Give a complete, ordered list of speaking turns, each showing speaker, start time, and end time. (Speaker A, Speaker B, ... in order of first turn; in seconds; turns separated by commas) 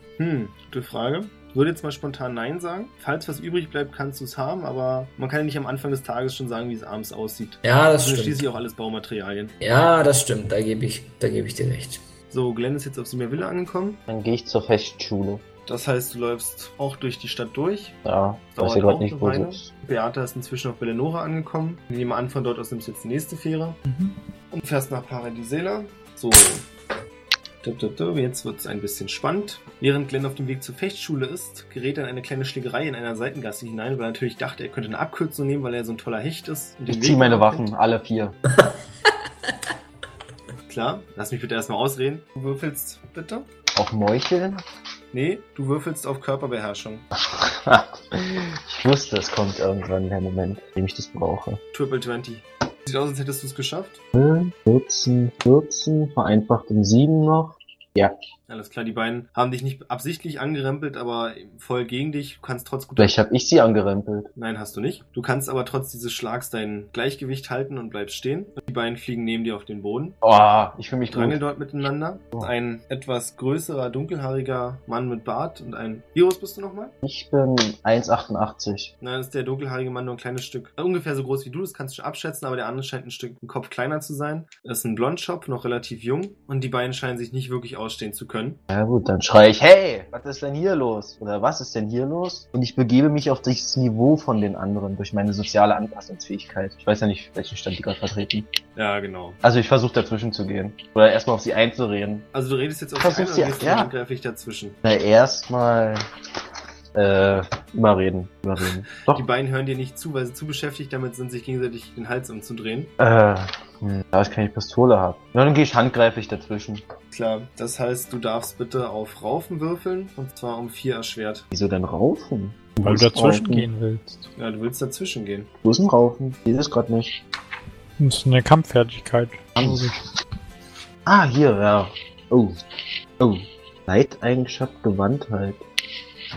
Speaker A: 0.2-9.5, Speaker B: 7.6-8.5, Speaker B: 9.6-12.0, Speaker A: 12.3-14.0, Speaker C: 14.1-15.4, Speaker A: 15.7-17.9, Speaker C: 18.0-19.7, Speaker A: 18.5-23.8, Speaker D: 23.9-24.1, Speaker A: 24.5-26.6, Speaker A: 27.6-37.7, Speaker C: 36.9-38.4, Speaker A: 40.7-43.5, Speaker C: 43.7-44.6, Speaker A: 45.1-47.0, Speaker C: 47.1-51.6, Speaker A: 51.7-54.0, Speaker C: 54.1-58.1, Speaker A: 58.5-63.1, Speaker C: 63.0-64.3, Speaker A: 64.3-70.2, Speaker C: 70.2-71.4, Speaker A: 71.1-76.9, Speaker C: 77.0-78.9, Speaker A: 79.0-88.6, Speaker C: 88.7-98.5, Speaker A: 98.8-99.4, Speaker C: 99.4-102.3, Speaker A: 102.3-104.8, Speaker C: 103.0-103.9, Speaker C: 104.8-106.0, Speaker C: 106.9-109.2, Speaker A: 109.1-112.9, Speaker C: 113.0-116.8, Speaker A: 117.1-121.5, Speaker C: 121.5-123.7, Speaker D: 122.8-124.3, Speaker A: 124.4-125.5, Speaker C: 125.6-127.2, Speaker D: 128.0-130.0, Speaker C: 129.6-129.9, Speaker C: 131.1-132.6, Speaker C: 133.2-135.6